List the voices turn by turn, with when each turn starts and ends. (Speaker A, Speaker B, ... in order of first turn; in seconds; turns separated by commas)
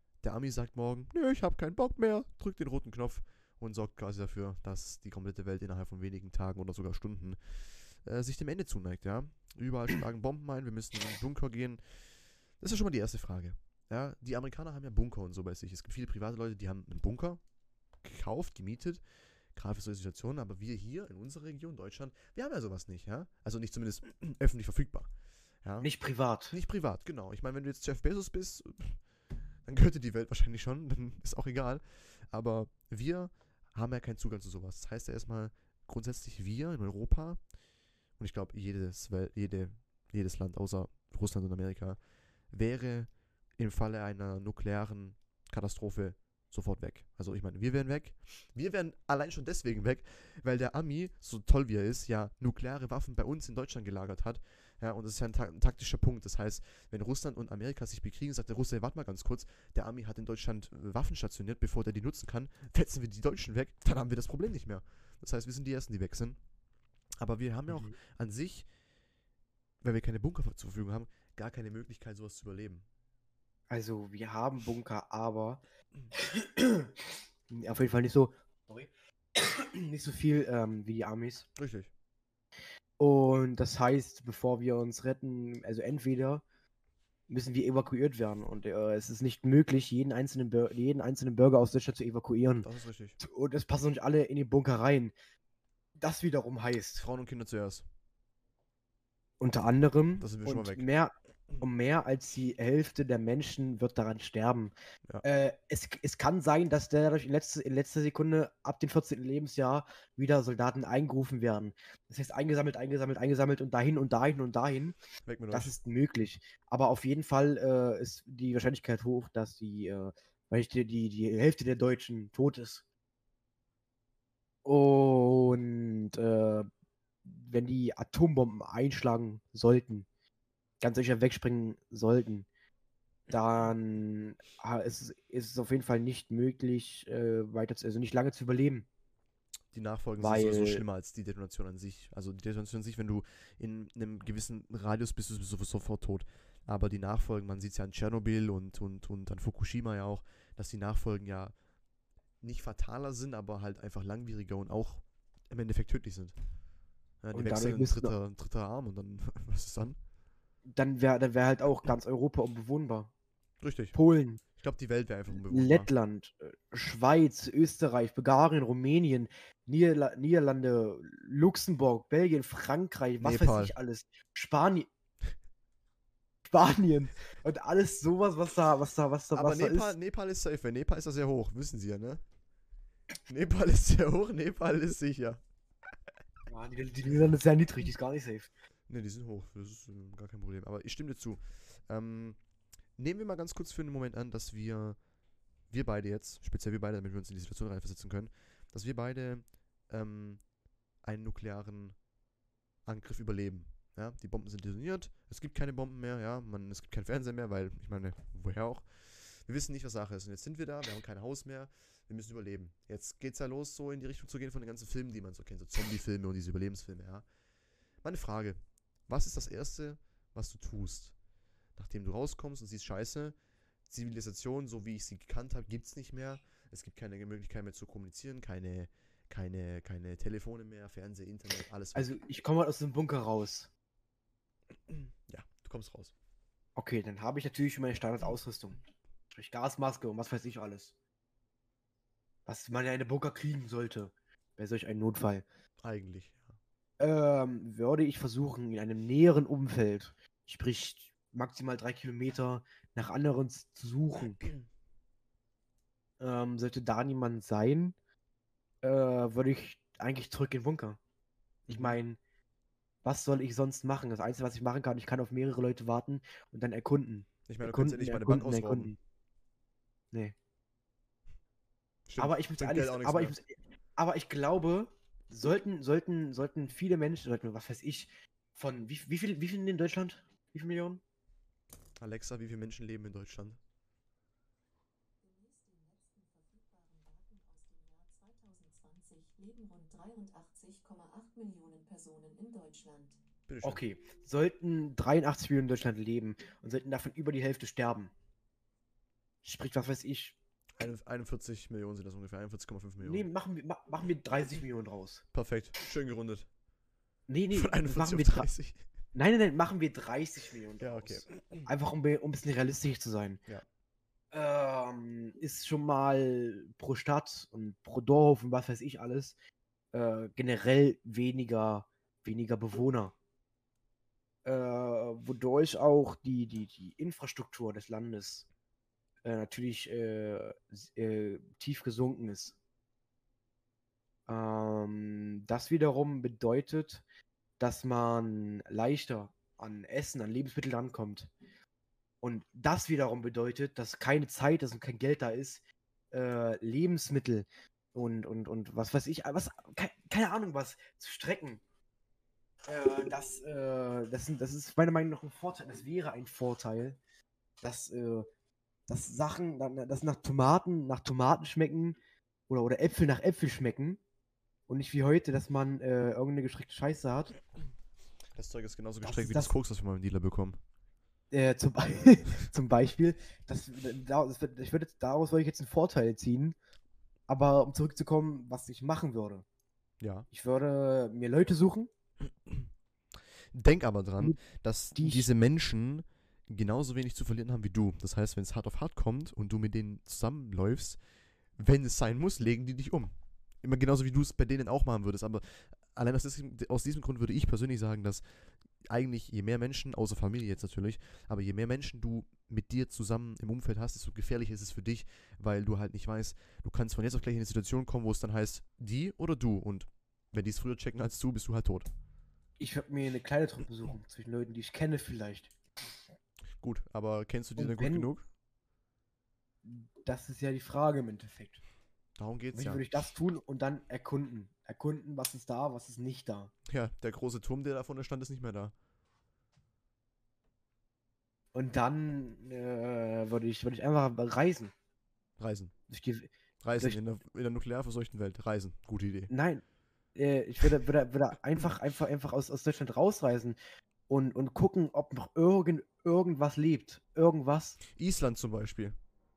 Speaker A: 0.2-12.1, Speaker A: 12.6-17.4, Speaker A: 18.0-19.0, Speaker A: 19.5-25.1, Speaker A: 25.6-25.9, Speaker B: 25.8-26.6, Speaker A: 26.5-29.0, Speaker A: 29.6-37.4, Speaker A: 38.2-42.0, Speaker A: 42.5-66.4, Speaker A: 67.2-68.7, Speaker B: 67.7-68.0, Speaker A: 69.8-72.8, Speaker B: 73.7-75.6, Speaker B: 76.1-81.5, Speaker A: 81.5-81.9, Speaker B: 83.0-86.4, Speaker B: 87.3-92.7, Speaker A: 92.6-93.2, Speaker B: 93.2-95.1, Speaker B: 96.0-97.0, Speaker A: 97.0-97.8, Speaker B: 99.4-115.0, Speaker A: 100.2-100.9, Speaker A: 115.2-115.7, Speaker B: 115.5-122.8, Speaker B: 124.6-126.7, Speaker B: 127.2-130.1, Speaker B: 130.8-132.5, Speaker B: 133.3-138.9, Speaker A: 139.7-151.5, Speaker B: 140.2-140.8, Speaker A: 152.4-156.3, Speaker A: 157.2-160.0, Speaker B: 157.3-158.1, Speaker B: 160.7-163.1, Speaker A: 163.6-164.0, Speaker B: 163.9-164.4, Speaker A: 164.6-165.9, Speaker B: 165.3-174.9, Speaker A: 173.2-173.7, Speaker B: 176.5-179.9, Speaker A: 179.3-182.2, Speaker A: 183.3-185.4, Speaker B: 186.5-188.5, Speaker A: 188.9-192.4, Speaker A: 193.0-195.0, Speaker A: 195.7-200.4, Speaker A: 201.0-202.0, Speaker A: 202.8-217.2, Speaker A: 218.0-221.1, Speaker A: 221.8-223.3, Speaker A: 223.9-232.2, Speaker B: 231.9-233.7, Speaker A: 234.9-236.1, Speaker B: 236.8-238.8, Speaker B: 239.3-240.9, Speaker B: 242.4-245.4, Speaker A: 245.8-246.6, Speaker B: 247.0-254.4, Speaker B: 256.2-257.9, Speaker B: 258.8-261.0, Speaker B: 261.7-262.2, Speaker A: 261.7-262.0, Speaker B: 263.0-269.0, Speaker A: 267.5-268.9, Speaker A: 272.1-273.4, Speaker B: 272.2-281.0, Speaker A: 282.0-283.6, Speaker C: 285.2-293.2, Speaker A: 293.5-293.8, Speaker B: 293.6-298.1, Speaker B: 299.4-300.4, Speaker A: 300.8-303.2, Speaker B: 303.0-305.2, Speaker A: 305.3-306.5, Speaker B: 307.3-308.5, Speaker A: 307.5-308.8, Speaker B: 309.1-313.4, Speaker A: 310.8-311.7, Speaker B: 314.3-319.3, Speaker B: 319.9-323.1, Speaker B: 324.4-328.5, Speaker B: 329.2-332.6, Speaker B: 334.3-337.0, Speaker B: 337.6-341.3, Speaker B: 342.2-351.6, Speaker B: 352.7-357.0, Speaker B: 357.6-358.3, Speaker B: 358.9-362.0, Speaker B: 362.5-364.0, Speaker B: 364.7-367.3, Speaker A: 368.3-370.6, Speaker B: 369.0-369.5, Speaker B: 371.3-376.5, Speaker B: 377.3-379.4, Speaker A: 380.0-380.3, Speaker B: 380.3-381.9, Speaker A: 382.2-382.7, Speaker A: 383.5-391.0, Speaker B: 384.9-385.3, Speaker A: 391.6-398.2, Speaker A: 398.8-411.9, Speaker B: 412.6-415.5, Speaker A: 416.6-418.3, Speaker B: 417.6-418.1, Speaker B: 419.6-421.6, Speaker A: 422.2-422.8, Speaker B: 422.5-426.5, Speaker A: 426.7-428.7, Speaker B: 431.5-434.7, Speaker A: 435.4-435.7, Speaker B: 435.9-437.0, Speaker A: 436.6-439.3, Speaker B: 439.3-439.6, Speaker B: 440.1-443.6, Speaker B: 444.1-447.8, Speaker A: 447.9-448.9